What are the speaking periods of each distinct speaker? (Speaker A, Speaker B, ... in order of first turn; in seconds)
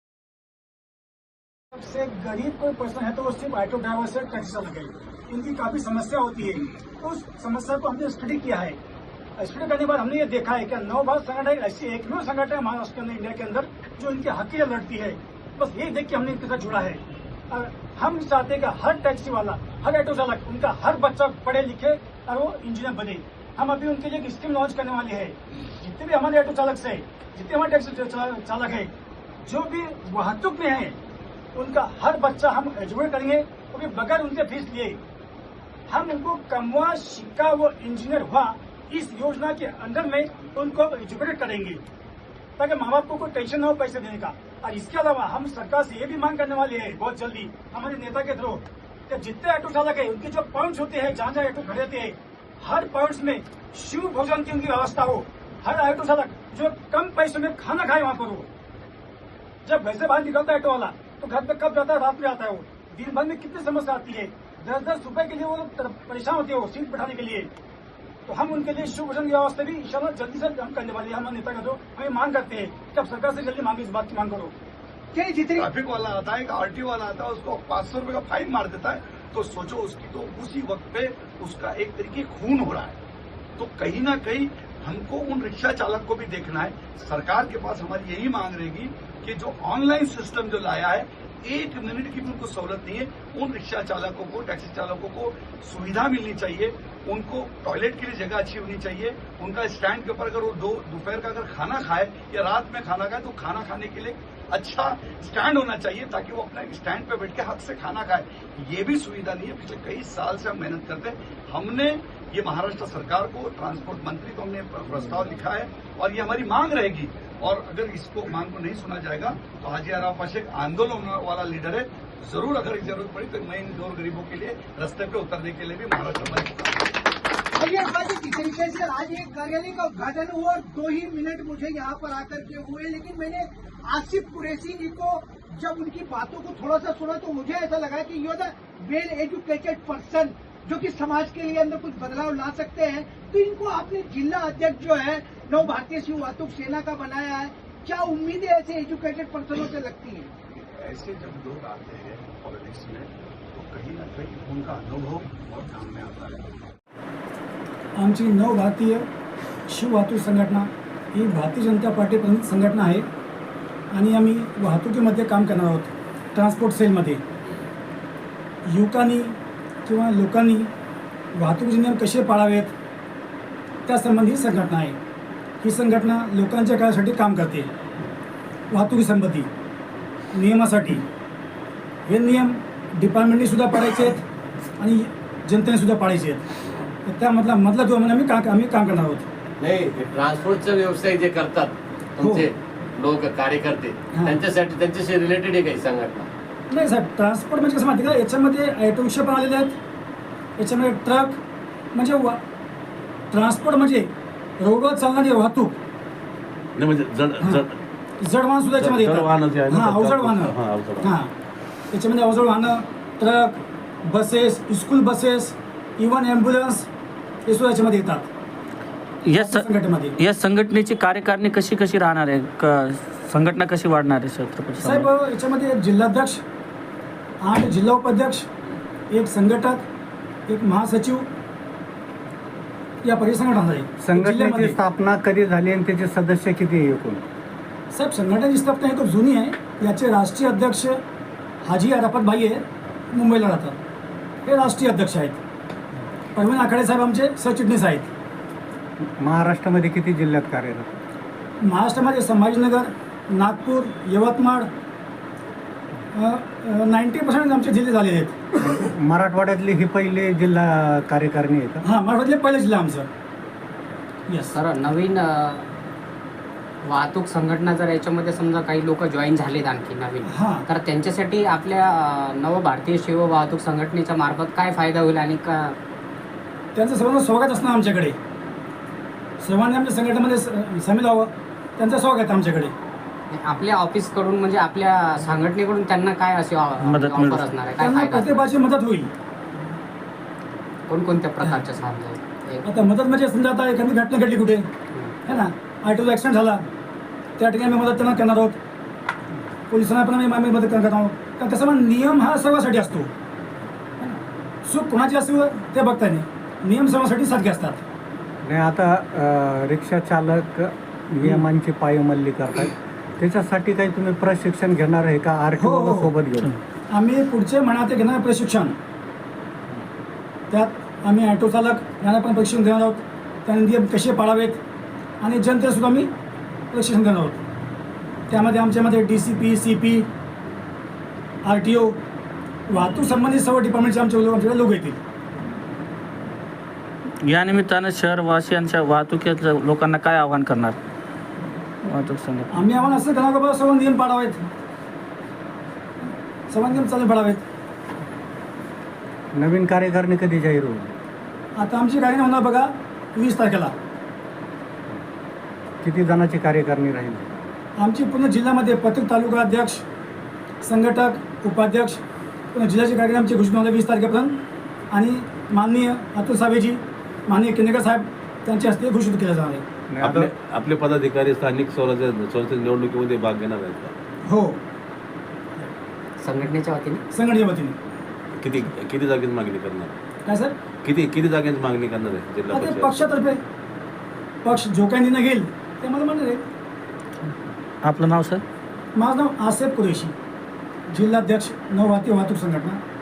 Speaker A: 1.7-8.8, 9.4-28.9, 29.4-30.9, 31.5-35.0, 35.9-41.8, 42.6-58.5, 59.6-67.5, 68.3-74.5, 157.9-159.1, 159.7-163.1, 163.9-167.2, 168.7-170.7, 171.3-172.7, 173.8-175.0, 175.6-177.7, 178.7-179.5, 180.3-181.1, 182.1-184.2, 184.8-186.4, 187.0-189.3, 192.2-192.5, 194.1-194.4, 196.7-199.8, 200.6-201.4, 201.9-202.4, 203.3-205.8, 208.2-211.3, 211.9-216.9, 217.4-218.3, 219.3-220.1, 224.8-226.4, 227.4-228.5, 229.1-229.8, 230.5-231.3, 233.0-234.8, 237.9-241.0, 241.6-243.8, 244.4-245.4, 246.3-248.1, 251.6-254.7, 256.1-258.7, 261.8-263.1, 264.3-264.5, 270.3-270.6, 276.7-278.1, 279.4-282.7, 287.8-289.1, 292.6-294.7, 295.2-296.6, 297.4-298.6, 299.7-303.1, 304.0-307.8, 315.6-316.1, 316.9-318.8, 320.5-324.6, 325.2-326.1, 326.7-327.4, 328.3-330.1, 331.4-332.0, 332.7-335.0, 342.5-344.4, 346.5-347.4, 351.6-353.7, 357.8-359.8, 360.6-362.0, 362.5-364.4, 364.9-369.6, 374.2-374.6, 377.1-377.8, 380.2-380.6, 382.5-383.4, 384.4-386.4, 388.9-390.1, 390.9-392.8
Speaker B: 75.1-75.7, 127.5-150.4
Speaker C: 75.5-83.0, 83.6-126.9, 150.5-156.5
Speaker D: 189.6-196.3
Speaker E: 206.8-207.8, 208.7-211.2, 370.0-373.9, 378.4-379.9, 380.8-383.1
Speaker F: 219.2-219.7, 220.2-225.1, 286.8-287.6, 337.2-340.8, 341.8-342.5, 387.8-388.4
Speaker G: 234.0-237.2, 249.2-251.0, 258.6-261.8, 308.4-316.5, 349.3-350.9, 355.8-357.4, 369.9-370.3
Speaker H: 264.5-265.6, 266.8-275.8, 283.3-288.5, 290.9-292.7, 294.9-295.2, 376.2-377.0